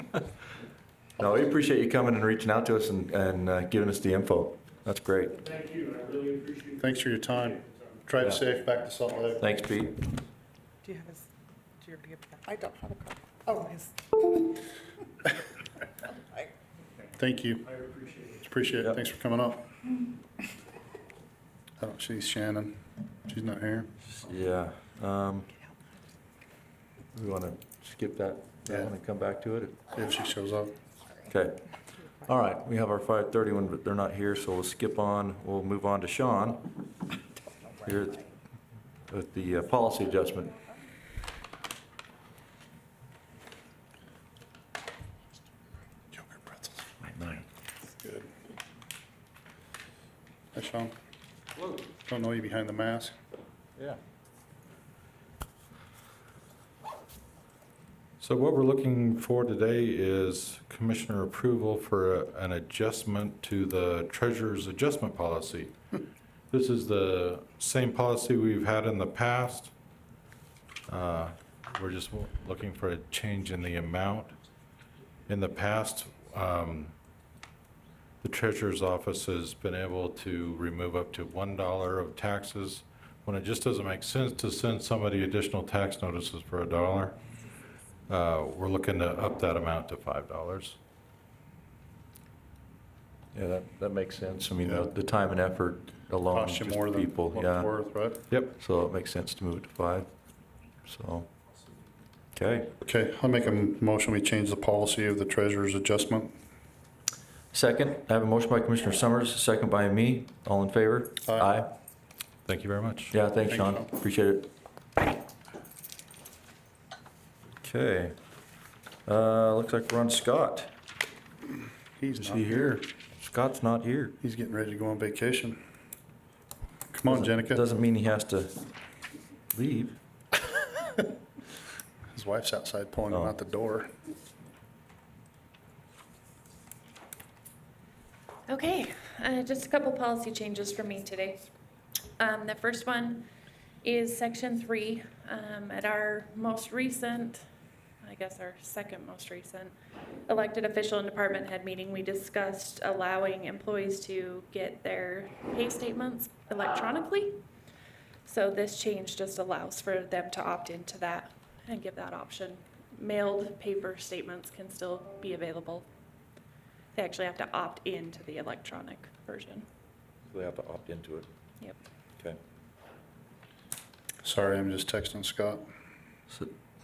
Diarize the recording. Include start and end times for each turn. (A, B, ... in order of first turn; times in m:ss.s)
0:01.2-0:05.4 A
0:05.4-0:08.0 B
0:06.8-0:09.4 C
0:09.4-0:10.0 A
0:10.8-0:11.2 D
0:11.8-0:13.9 D
0:17.2-0:17.7 C
0:17.6-0:18.5 B
0:18.4-0:19.7 C
0:21.8-0:23.9 C
0:24.1-0:25.5 A
0:27.1-0:29.8 A
0:29.9-0:30.7 C
0:31.3-0:31.7 A
0:32.2-0:36.7 A
0:37.8-0:38.3 A
0:39.1-0:40.6 A
0:46.1-0:46.9 C
0:47.0-0:47.4 A
0:48.0-0:48.3 C
0:50.5-0:50.9 C
0:51.8-0:53.2 C
0:58.2-1:05.7 E
1:06.5-1:09.7 E
1:10.9-1:14.3 E
1:15.3-1:17.0 E
1:18.2-1:27.2 E
1:28.1-1:30.8 E
1:33.3-1:37.7 A
1:34.6-1:34.9 C
1:36.3-1:38.2 C
1:38.4-1:40.1 A
1:40.8-1:41.3 A
1:42.4-1:42.8 A
1:42.8-1:46.3 C
1:47.5-1:51.7 A
1:51.2-1:51.5 C
1:52.5-1:53.1 E
1:53.1-1:54.5 A
1:53.4-1:53.9 C
1:57.6-1:58.2 A
1:59.1-2:00.7 A
2:02.0-2:02.8 C
2:02.2-2:04.2 A
2:04.2-2:05.6 C
2:06.9-2:07.6 C
2:07.0-2:08.6 A
2:09.5-2:10.0 A
2:12.1-2:13.9 C
2:18.5-2:21.5 F
2:22.2-2:23.3 F
2:23.8-2:27.4 F
2:28.0-2:29.8 F
2:30.3-2:37.4 F
2:38.3-2:45.9 F
2:47.0-2:49.6 F
2:50.3-2:51.3 A
2:54.2-2:55.6 C